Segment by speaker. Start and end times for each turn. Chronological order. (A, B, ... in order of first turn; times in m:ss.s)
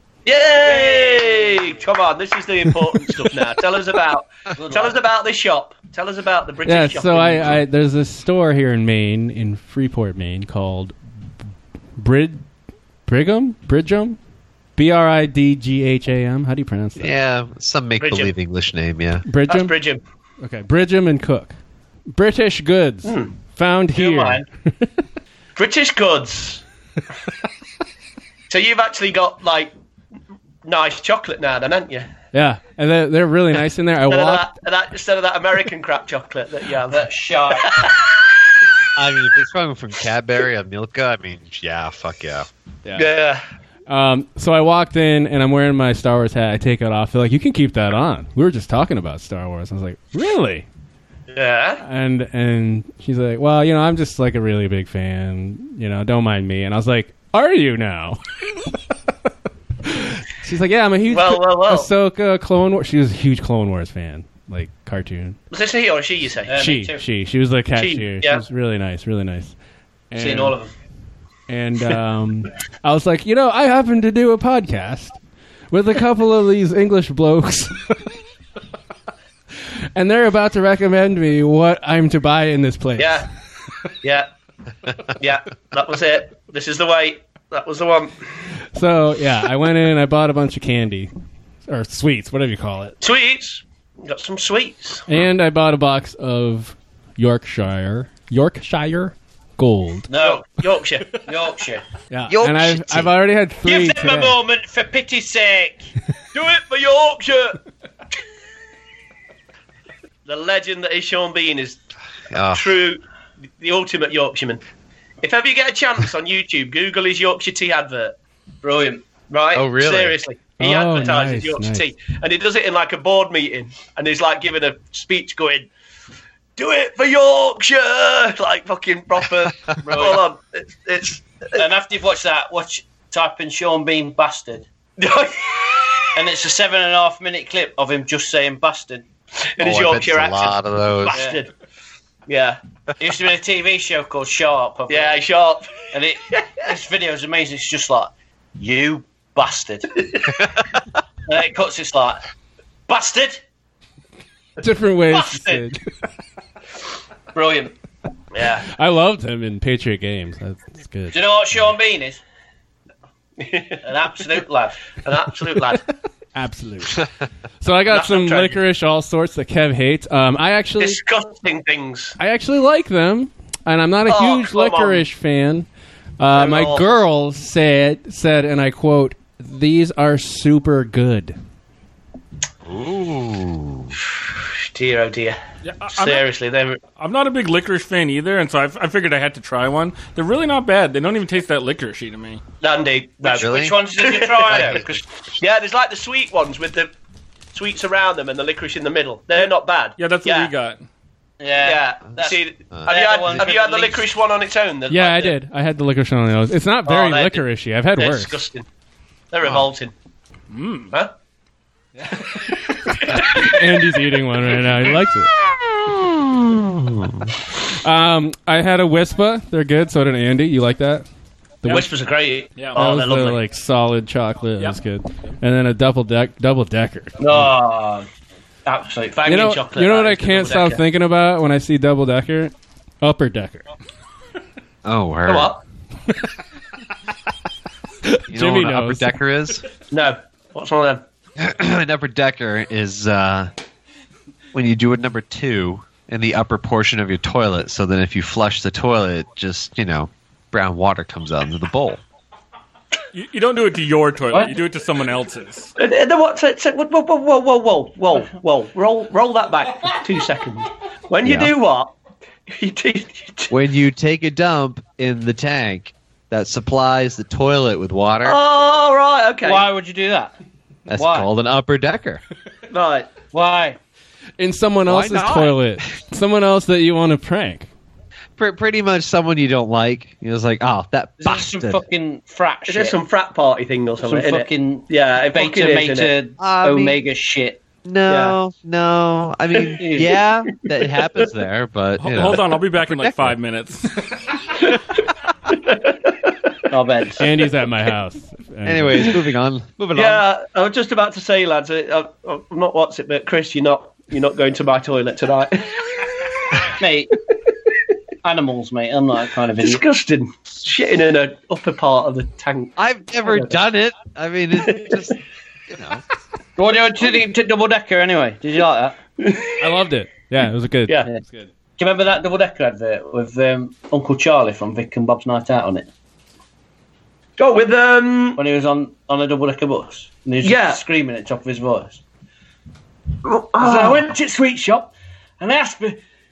0:00.2-0:07.6 A
0:00.6-0:01.8 B
0:04.6-0:05.0 B
0:06.6-0:11.0 C
0:12.0-0:12.5 C
0:13.1-0:14.2 C
0:14.8-0:17.1 C
0:17.0-0:19.2 D
0:18.0-0:18.3 A
0:19.3-0:19.8 C
0:19.5-0:20.0 A
0:20.4-0:21.6 C
0:22.1-0:24.9 C
0:23.0-0:23.4 A
0:23.9-0:24.4 B
0:25.6-0:26.6 A
0:28.5-0:29.7 A
0:30.6-0:32.1 A
0:32.3-0:34.5 C
0:34.1-0:38.1 A
0:36.9-0:37.8 B
0:39.0-0:42.5 D
0:42.9-0:43.1 C
0:43.0-0:43.4 A
0:43.9-0:50.7 C
0:51.3-0:51.8 A
0:51.8-0:58.2 C
0:59.8-1:05.4 C
1:01.1-1:01.9 A
1:05.5-1:06.7 A
1:06.5-1:07.0 B
1:06.6-1:09.5 C
1:07.7-1:08.4 A
1:10.1-1:10.6 C
1:10.2-1:10.7 B
1:11.5-1:15.2 C
1:15.7-1:18.1 C
1:20.0-1:23.2 C
1:23.0-1:23.3 A
1:24.0-1:24.3 A
1:25.2-1:28.2 A
1:28.7-1:31.1 C
1:31.7-1:33.0 C
1:33.0-1:35.0 A
1:35.1-1:40.1 C
1:40.1-1:40.4 B
1:40.2-1:41.2 A
1:41.1-1:41.8 B
1:42.1-1:44.4 C
1:42.3-1:43.2 D
1:43.6-1:45.9 B
1:46.3-1:47.6 A
1:50.3-1:51.8 A
1:52.3-1:52.8 D
1:52.5-1:53.0 A
1:53.6-1:54.6 A
1:55.2-1:58.2 A
1:58.6-1:59.0 B
1:59.3-2:05.7 A
1:59.5-2:00.2 D
2:00.6-2:01.9 C
2:06.6-2:11.6 A
2:09.8-2:10.2 B
2:11.6-2:14.7 B
2:15.0-2:16.1 A
2:16.2-2:19.0 B
2:19.6-2:21.5 A
2:19.6-2:21.3 D
2:21.1-2:21.4 B
2:22.3-2:22.6 A
2:23.0-2:25.2 B
2:24.9-2:25.8 A
2:25.9-2:29.9 B
2:31.3-2:32.2 B
2:32.9-2:33.4 B
2:34.6-2:35.8 C
2:35.1-2:35.6 B
2:37.3-2:37.7 B
2:38.3-2:38.6 A
2:38.6-2:41.2 C
2:41.1-2:42.2 B
2:43.4-2:43.8 A
2:43.8-2:44.8 B
2:45.0-2:45.8 A
2:46.4-2:47.0 C
2:47.6-2:51.0 C
2:47.9-2:48.6 A
2:50.8-2:52.2 A
2:52.2-2:55.7 C
2:54.1-2:55.1 A
2:56.2-3:01.4 C
2:56.3-2:56.9 A
3:02.6-3:04.0 D
3:04.2-3:05.4 A
3:05.6-3:06.3 E
3:05.9-3:06.8 A
3:07.0-3:12.4 E
3:12.6-3:14.8 A
3:13.2-3:13.8 D
3:13.2-3:15.0 B
3:15.4-3:16.9 A
3:17.5-3:20.5 A
3:20.0-3:20.8 E
3:21.4-3:24.1 B
3:21.6-3:25.4 A
3:24.9-3:28.4 C
3:26.9-3:28.7 A
3:29.3-3:29.9 A
3:30.5-3:30.9 E
3:32.5-3:33.5 A
3:33.1-3:35.3 C
3:35.8-3:37.3 D
3:37.5-3:41.1 C
3:41.6-3:41.9 C
3:41.7-3:43.4 A
3:42.7-3:47.5 C
3:47.2-3:48.1 B
3:48.7-3:49.3 B
3:49.2-3:50.8 A
3:49.3-3:53.7 C
3:54.8-3:55.5 D
3:55.3-3:55.6 A
3:58.1-3:59.1 C
3:58.3-3:59.6 D
3:59.9-4:01.0 A
4:01.4-4:03.5 D
4:04.5-4:12.0 D
4:13.1-4:15.7 E
4:15.8-4:22.0 A
4:21.2-4:21.5 D
4:22.5-4:23.5 A
4:23.5-4:28.4 D
4:28.2-4:29.7 A
4:29.4-4:30.4 B
4:30.9-4:32.2 D
4:30.9-4:31.3 B
4:32.7-4:33.1 A
4:33.3-4:33.8 B
4:34.4-4:37.7 C
4:34.9-4:35.8 D
4:38.4-4:41.8 D
4:41.2-4:43.0 B
4:42.7-4:46.2 A
4:44.0-4:47.6 B
4:46.4-4:47.0 D
4:47.8-4:53.4 D
4:48.1-4:48.4 A
4:49.8-4:50.1 B
4:52.0-4:54.0 E
4:55.5-4:56.5 A
4:56.7-4:57.3 B
4:57.2-4:59.2 C
4:58.6-5:00.2 D
5:00.0-5:06.7 A
5:06.8-5:07.1 B
5:08.2-5:09.8 B
5:09.6-5:13.6 A
5:12.8-5:15.2 D
5:14.6-5:15.1 A
5:15.7-5:16.0 D
5:16.6-5:19.0 B
5:19.2-5:19.7 A
5:19.6-5:21.5 C
5:21.8-5:25.9 B
5:27.4-5:28.4 A
5:28.4-5:32.0 B
5:30.4-5:30.8 A
5:33.2-5:34.1 A
5:33.6-5:36.0 B